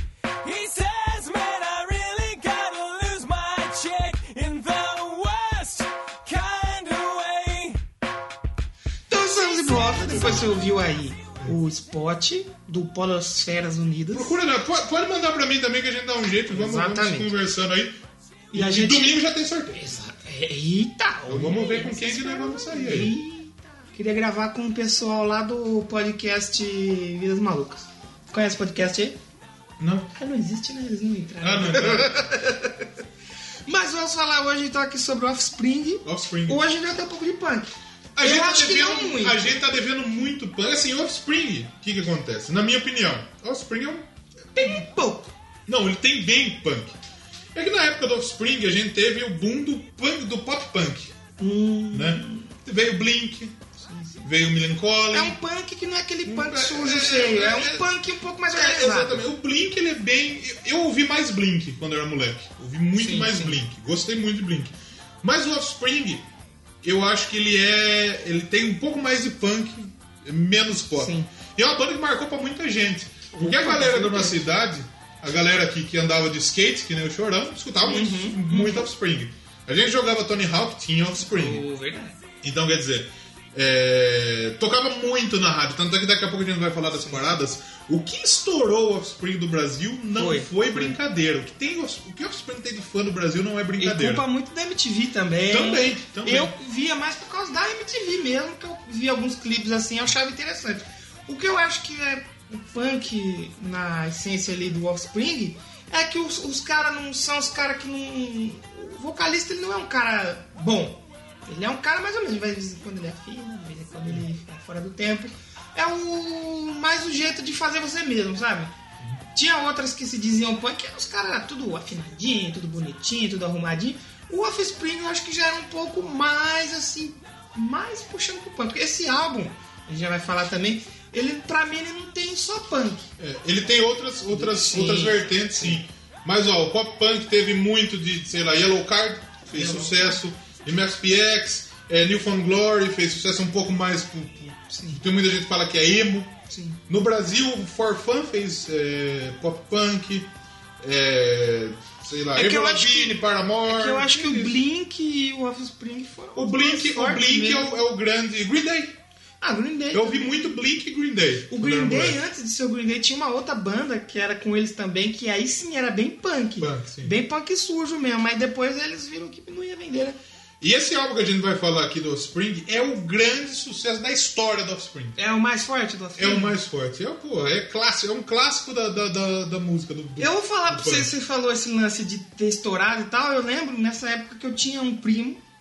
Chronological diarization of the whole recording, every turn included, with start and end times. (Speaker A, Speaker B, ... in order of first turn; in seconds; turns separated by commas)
Speaker A: 0.4-7.8, Speaker B: 9.1-14.4, Speaker C: 9.6-10.6, Speaker C: 14.1-18.0, Speaker B: 16.5-17.3, Speaker B: 18.5-19.2, Speaker C: 18.5-19.9, Speaker B: 19.7-29.2, Speaker C: 21.3-23.1, Speaker C: 29.8-30.1, Speaker B: 30.1-32.8, Speaker C: 31.4-32.4, Speaker B: 33.6-39.5, Speaker C: 36.0-36.6, Speaker C: 38.1-44.8, Speaker B: 44.5-45.3, Speaker C: 45.7-47.0, Speaker C: 47.5-51.1, Speaker B: 51.4-52.5, Speaker C: 51.9-53.5, Speaker B: 53.8-54.2, Speaker C: 54.2-55.4, Speaker B: 55.1-59.2, Speaker C: 56.2-57.9, Speaker C: 58.5-66.2, Speaker B: 63.0-63.6, Speaker C: 66.8-81.6, Speaker B: 71.0-71.3, Speaker B: 73.3-74.5, Speaker B: 77.8-78.9, Speaker B: 81.2-82.2, Speaker C: 82.4-94.2, Speaker B: 86.9-87.4, Speaker B: 90.1-90.9, Speaker B: 93.8-118.7, Speaker C: 95.5-96.5, Speaker B: 119.3-133.1, Speaker C: 133.2-146.3, Speaker B: 134.3-135.8, Speaker B: 139.5-140.2, Speaker B: 144.7-145.0, Speaker B: 146.5-146.8, Speaker C: 146.9-150.3, Speaker C: 150.8-154.6, Speaker B: 152.3-157.7, Speaker C: 156.3-158.9, Speaker B: 159.4-160.3, Speaker C: 159.9-162.2, Speaker B: 161.5-170.2, Speaker C: 166.6-167.1, Speaker C: 170.6-175.2, Speaker B: 175.2-176.6, Speaker C: 176.2-181.1, Speaker B: 180.2-185.4